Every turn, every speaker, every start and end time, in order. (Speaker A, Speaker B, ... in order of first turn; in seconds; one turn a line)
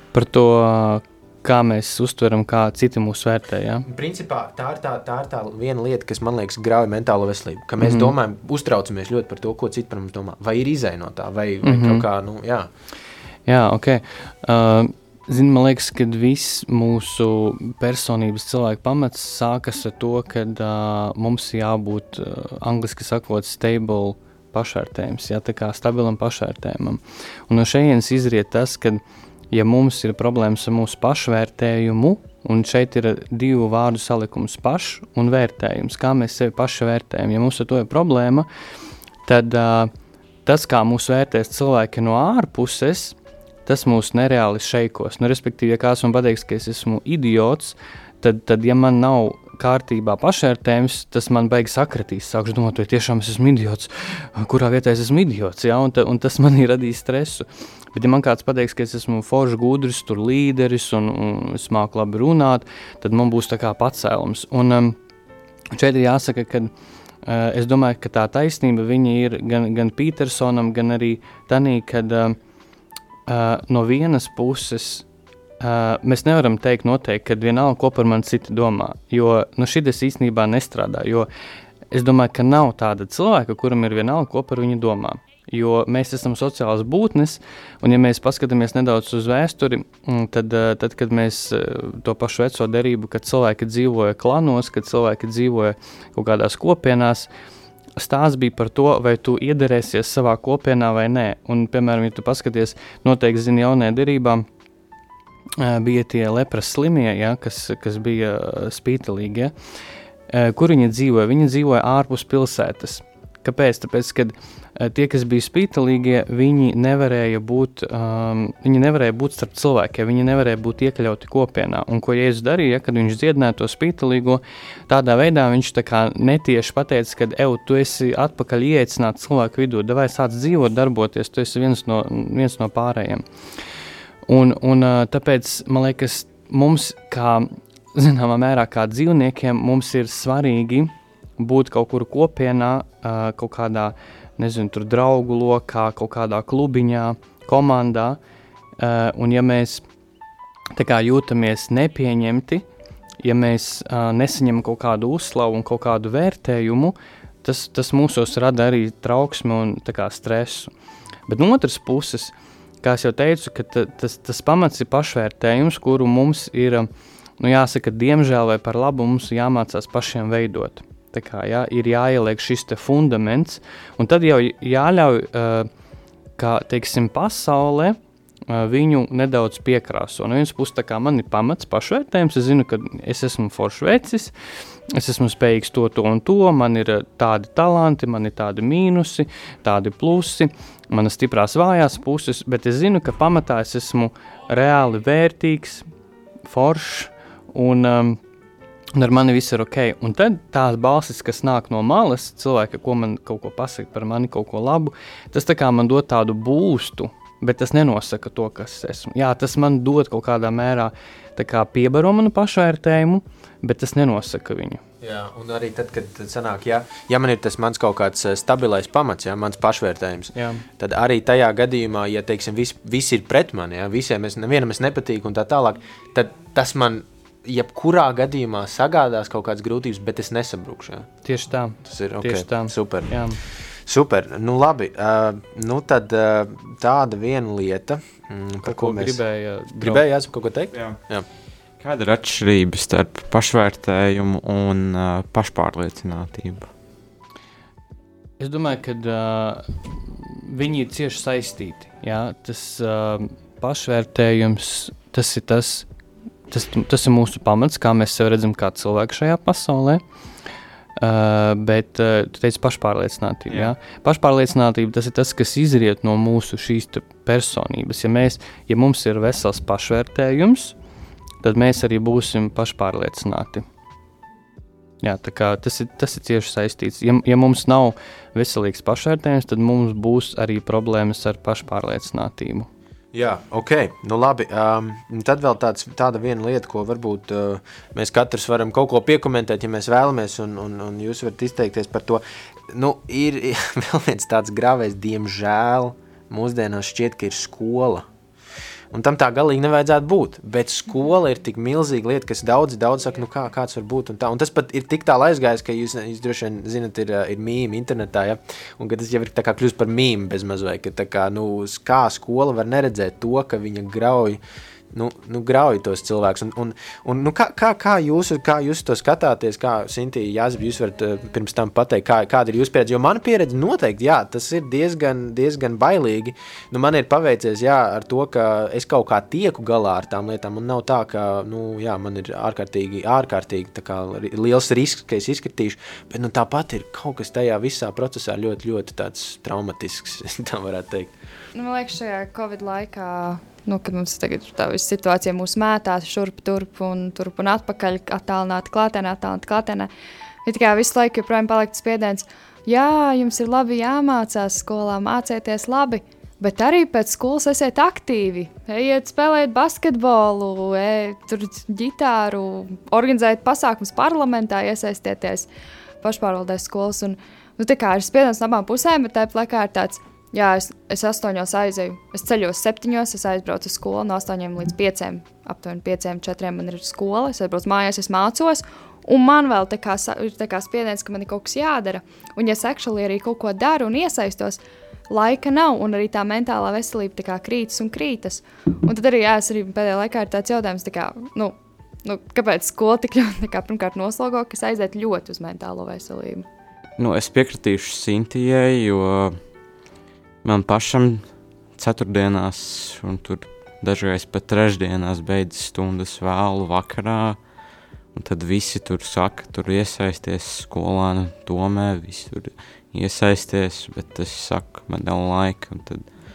Speaker A: 0.1-3.9
Speaker B: 3.8-12.7
Speaker A: 7.8-8.1
Speaker A: 11.6-12.1
Speaker A: 13.5-29.0
Speaker A: 29.5-38.5
Speaker A: 39.2-39.9
Speaker A: 40.4-65.0
Speaker A: 65.7-66.7
Speaker A: 67.2-72.4
Speaker A: 73.3-75.0
Speaker A: 75.6-81.3
Speaker A: 81.9-97.3
Speaker A: 98.0-104.5
Speaker A: 105.6-109.5
Speaker A: 110.3-133.2
Speaker A: 134.3-148.2
Speaker A: 148.8-149.8
Speaker A: 150.7-152.6
Speaker A: 153.2-160.7
Speaker A: 161.3-166.9
Speaker A: 167.4-175.7
Speaker A: 176.4-184.3
Speaker A: 184.9-195.9
Speaker A: 196.4-198.2
Speaker A: 198.9-214.8
Speaker B: 215.0-231.1
Speaker A: 220.3-220.6
Speaker A: 231.2-233.4
Speaker B: 231.8-239.2
Speaker A: 238.6-240.0
Speaker B: 239.8-241.2
Speaker C: 240.7-241.0
Speaker C: 241.8-246.7
Speaker A: 248.4-255.9
Speaker A: 256.5-260.0
Speaker A: 261.0-270.8
Speaker C: 263.5-263.7
Speaker A: 271.4-273.6
Speaker A: 275.0-282.7
Speaker B: 283.1-298.1
Speaker B: 298.9-314.4
Speaker B: 314.9-341.1
Speaker D: 341.5-349.9
Speaker D: 350.4-365.5
Speaker D: 366.0-396.5
Speaker C: 397.0-399.4
Speaker C: 400.4-407.4
Speaker C: 408.1-416.1